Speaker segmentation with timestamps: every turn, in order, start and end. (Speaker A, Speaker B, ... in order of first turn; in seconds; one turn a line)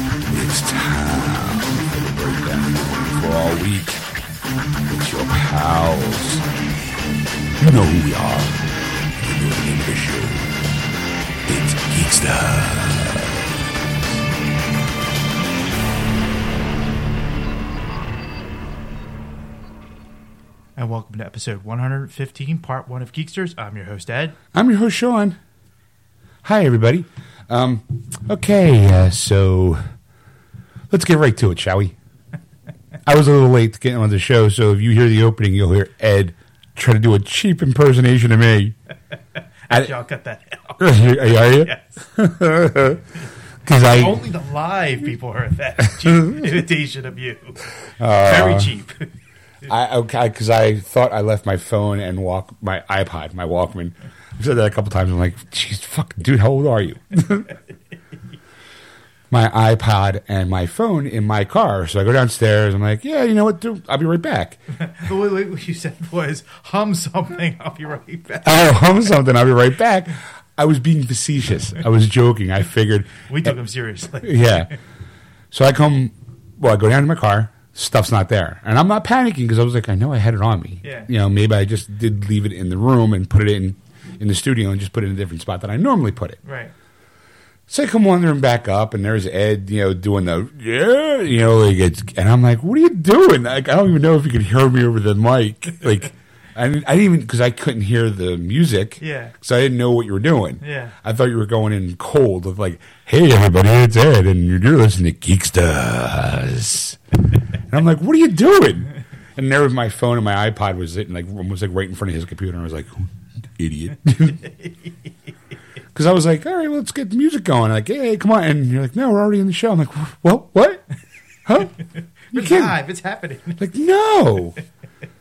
Speaker A: 0.2-4.0
Speaker A: 4.9-6.5
Speaker A: 7.6-8.6
Speaker A: 9.2-10.6
Speaker A: 11.4-14.2
Speaker B: 20.8-24.4
Speaker A: 24.5-25.4
Speaker A: 26.4-29.8
Speaker A: 30.9-31.9
Speaker A: 33.0-38.8
Speaker B: 39.7-40.9
Speaker A: 39.7-39.9
Speaker A: 40.8-43.0
Speaker B: 41.6-42.0
Speaker A: 43.6-44.2
Speaker B: 43.8-47.7
Speaker A: 46.0-46.5
Speaker A: 48.0-48.7
Speaker B: 48.2-49.1
Speaker A: 49.6-57.5
Speaker A: 59.3-64.6
Speaker B: 64.8-68.8
Speaker A: 68.4-73.6
Speaker B: 73.3-74.7
Speaker A: 74.2-74.7
Speaker A: 75.5-86.4
Speaker B: 80.8-81.1
Speaker B: 86.4-86.7
Speaker A: 87.7-114.5
Speaker B: 99.0-99.3
Speaker B: 100.6-100.9
Speaker A: 115.9-120.8
Speaker A: 121.5-122.8
Speaker B: 122.3-123.6
Speaker A: 123.6-124.6